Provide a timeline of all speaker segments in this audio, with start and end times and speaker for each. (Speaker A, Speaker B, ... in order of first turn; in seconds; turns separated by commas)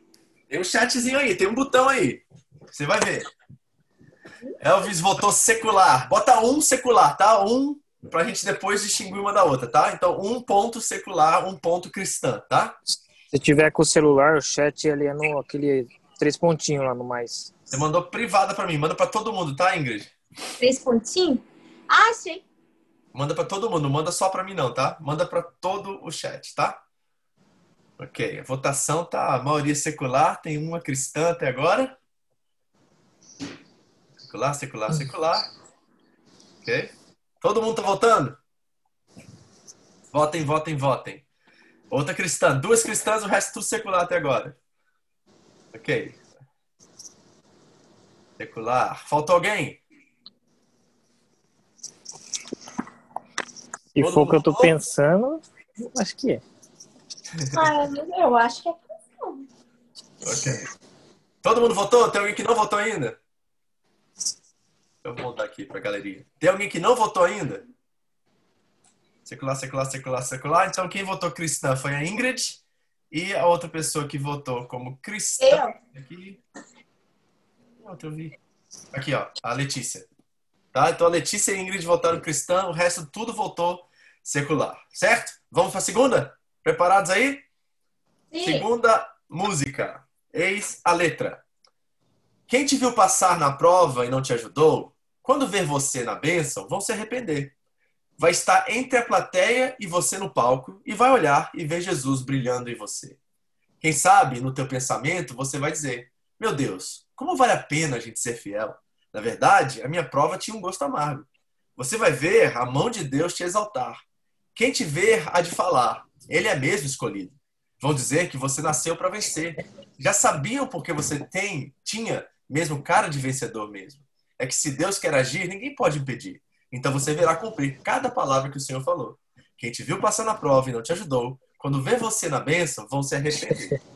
Speaker A: 0.5-2.2, Speaker A: 2.7-3.3, Speaker A: 4.6-12.8, Speaker B: 13.3-17.5, Speaker A: 17.7-20.1, Speaker C: 20.6-22.4, Speaker A: 23.1-26.8, Speaker A: 28.0-31.9, Speaker A: 34.2-35.5, Speaker A: 36.6-38.4, Speaker A: 40.1-41.2, Speaker A: 41.9-44.5, Speaker A: 45.7-46.2, Speaker A: 48.4-49.8, Speaker B: 53.9-56.4, Speaker A: 54.0-54.8, Speaker C: 57.5-59.4, Speaker A: 60.2-60.6, Speaker A: 61.4-63.2, Speaker A: 65.0-67.6, Speaker A: 69.2-76.4, Speaker C: 75.4-75.8, Speaker A: 77.8-78.3, Speaker A: 78.9-80.1, Speaker A: 80.7-87.4, Speaker C: 88.3-88.6, Speaker A: 88.4-91.4, Speaker A: 92.5-97.5, Speaker A: 98.2-103.2, Speaker A: 103.8-114.0, Speaker A: 114.5-133.8